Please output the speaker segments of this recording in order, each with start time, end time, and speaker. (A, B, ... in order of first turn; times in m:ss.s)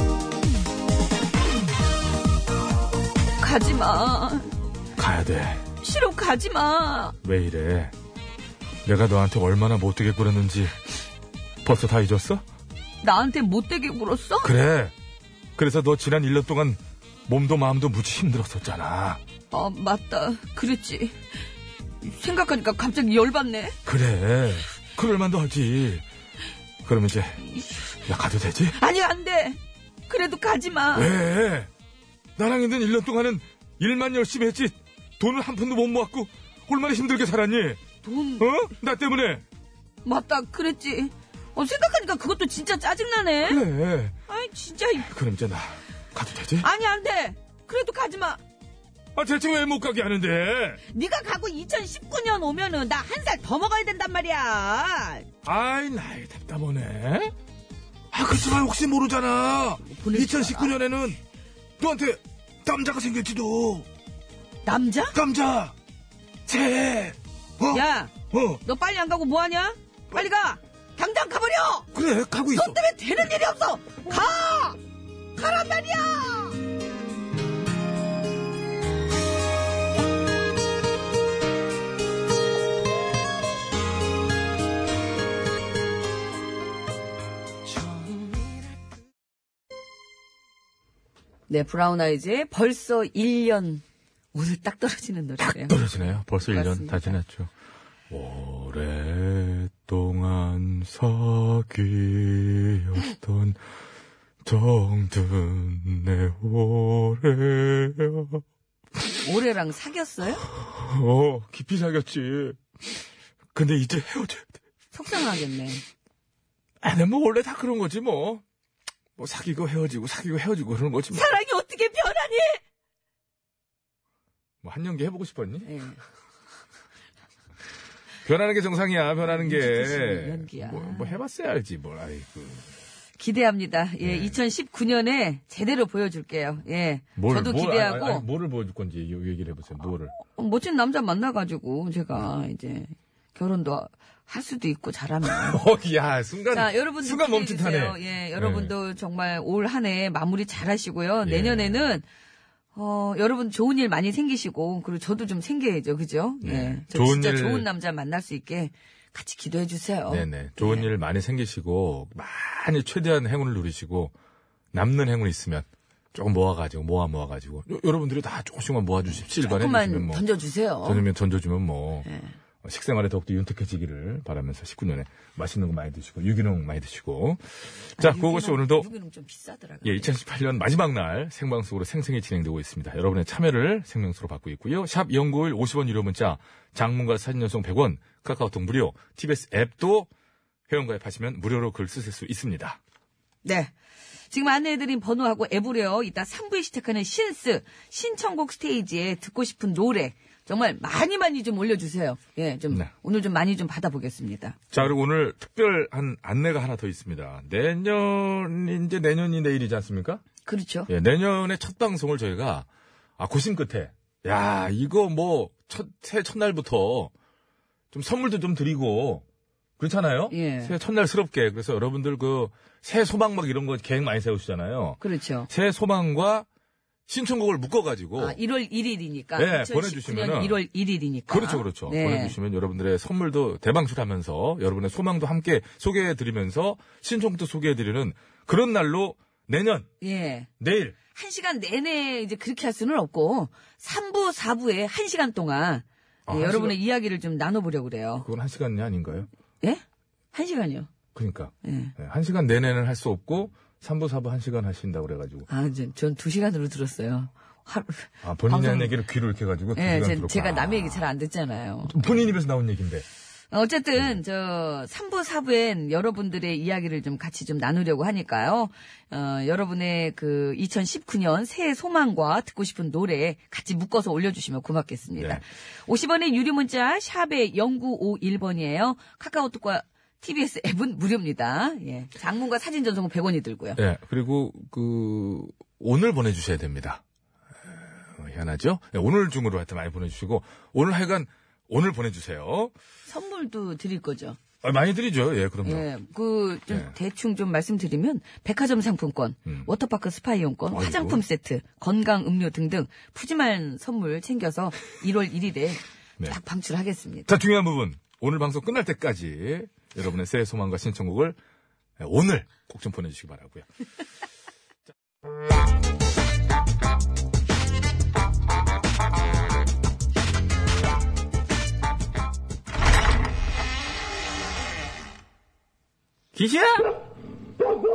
0:03.4-0:04.5 A
0:05.0-0:05.6 B
0:05.8-0:07.2 A
0:07.2-0:07.9 B
0:08.8-0:10.8 B
0:11.6-0:12.4 B
0:13.0-0:14.5 A
0:14.4-0:14.9 B
0:15.6-0:19.2 B
0:19.5-0:21.2 A
0:22.0-0:23.8 A
0:23.8-0:26.0 B
0:26.8-0:27.4 B
0:27.4-0:28.0 A
0:28.0-0:28.8 B
0:28.7-0:31.1 A
0:30.9-0:31.7 B
0:32.4-0:37.8 B
0:38.0-0:38.5 A
0:38.4-0:39.4 B
0:40.0-0:43.6 A
0:43.4-0:44.2 B
0:44.3-0:45.1 A
0:44.9-0:46.7 B
0:46.6-0:48.4 A
0:49.1-0:50.8 B
0:50.9-0:55.3 A
0:55.4-0:57.3 B
0:58.1-1:01.2 B
0:59.8-1:00.8 A
1:01.8-1:03.9 B
1:04.6-1:05.2 A
1:05.1-1:05.7 B
1:06.5-1:08.6 B
1:07.7-1:11.9 A
1:11.9-1:12.8 B
1:12.5-1:14.8 A
1:15.4-1:16.6 A
1:31.5-1:35.8 A
1:35.4-1:37.5 B
1:36.4-1:37.2 A
1:38.1-1:43.6 B
1:44.4-1:48.4 B
1:49.2-1:50.4 A
1:50.6-1:52.6 B
1:53.5-1:54.6 B
1:54.9-1:55.8 A
1:56.8-1:58.4 B
1:59.2-2:01.3 B
2:01.1-2:02.6 A
2:04.6-2:05.7 B
2:05.6-2:06.0 A
2:08.2-2:12.7 B
2:09.2-2:11.2 A
2:13.2-2:18.2 A
2:14.0-2:14.4 B
2:17.2-2:20.1 B
2:20.2-2:25.6 A
2:25.2-2:28.7 B
2:26.5-2:32.0 A
2:31.2-2:31.9 B
2:32.7-2:40.9 A
2:36.4-2:37.7 B
2:40.1-2:44.1 B
2:44.7-2:50.2 B
2:49.4-2:51.0 A
2:50.8-2:52.1 B
2:52.0-2:52.3 A
2:52.6-2:58.9 B
2:58.0-3:00.1 A
2:59.8-3:10.1 B
3:10.7-3:12.8 B
3:13.4-3:13.7 A
3:14.3-3:24.6 A
3:24.7-3:30.2 B
3:30.4-3:30.9 A
3:30.9-3:37.1 B
3:37.9-3:39.2 B
3:39.8-3:46.4 B
3:40.3-3:40.7 A
3:45.0-3:45.5 A
3:47.1-3:48.4 B
3:48.2-3:52.3 A
3:49.4-3:50.6 B
3:51.3-3:59.9 B
4:00.0-4:00.5 A
4:00.6-4:01.0 B
4:01.1-4:08.2 A
4:06.3-4:06.8 B
4:08.2-4:09.3 B
4:10.3-4:10.9 A
4:11.1-4:15.5 B
4:11.6-4:11.9 A
4:15.5-4:18.9 A
4:18.2-4:21.1 B
4:19.7-4:22.2 A
4:21.9-4:23.0 B
4:23.5-4:43.8 A
4:35.2-4:35.4 B
4:43.8-4:47.0 B
4:47.7-4:52.7 B
4:53.1-4:54.4 A
4:54.6-4:55.9 B
4:55.6-5:07.3 A
5:00.7-5:01.2 B
5:07.3-5:11.4 B
5:12.0-5:13.7 B
5:26.3-5:27.0 B